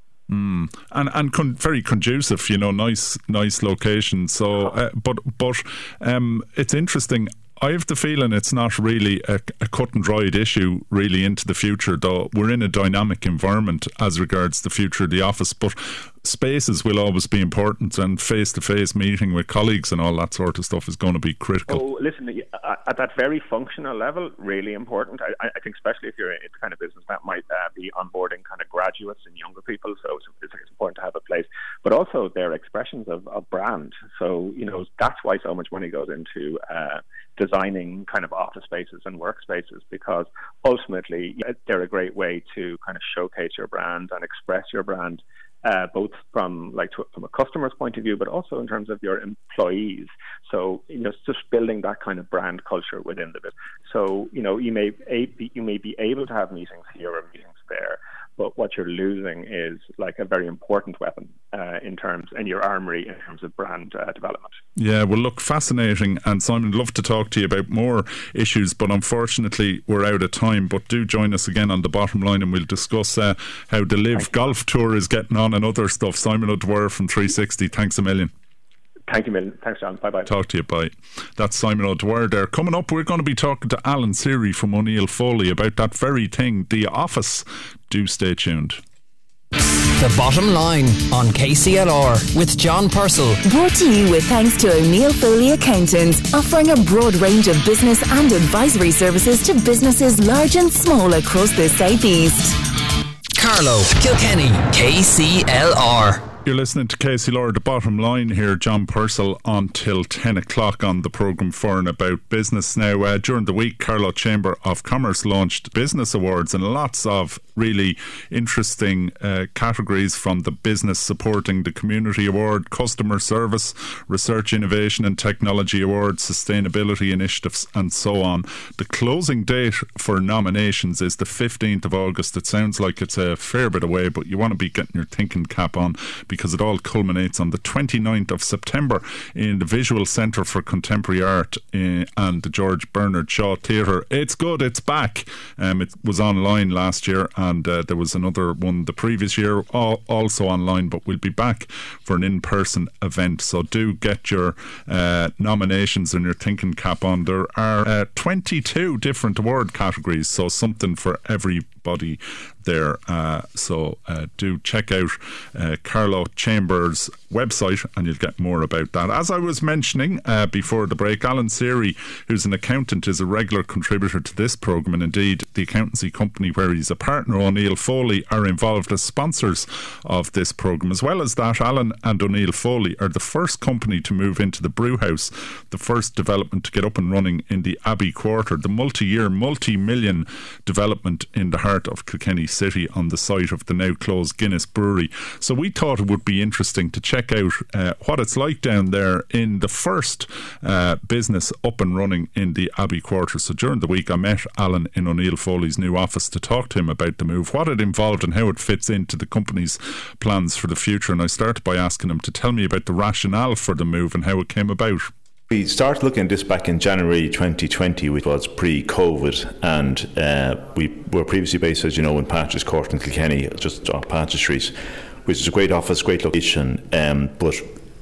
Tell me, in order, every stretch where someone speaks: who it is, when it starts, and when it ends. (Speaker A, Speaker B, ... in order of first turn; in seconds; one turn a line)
Speaker A: 0.3-21.8
Speaker B: 21.7-64.6
Speaker A: 64.8-78.3
Speaker B: 79.1-80.3
Speaker A: 80.3-88.8
Speaker C: 89.6-93.4
Speaker D: 93.5-102.6
Speaker C: 103.4-106.2
Speaker A: 106.4-215.1
Speaker E: 215.5-227.7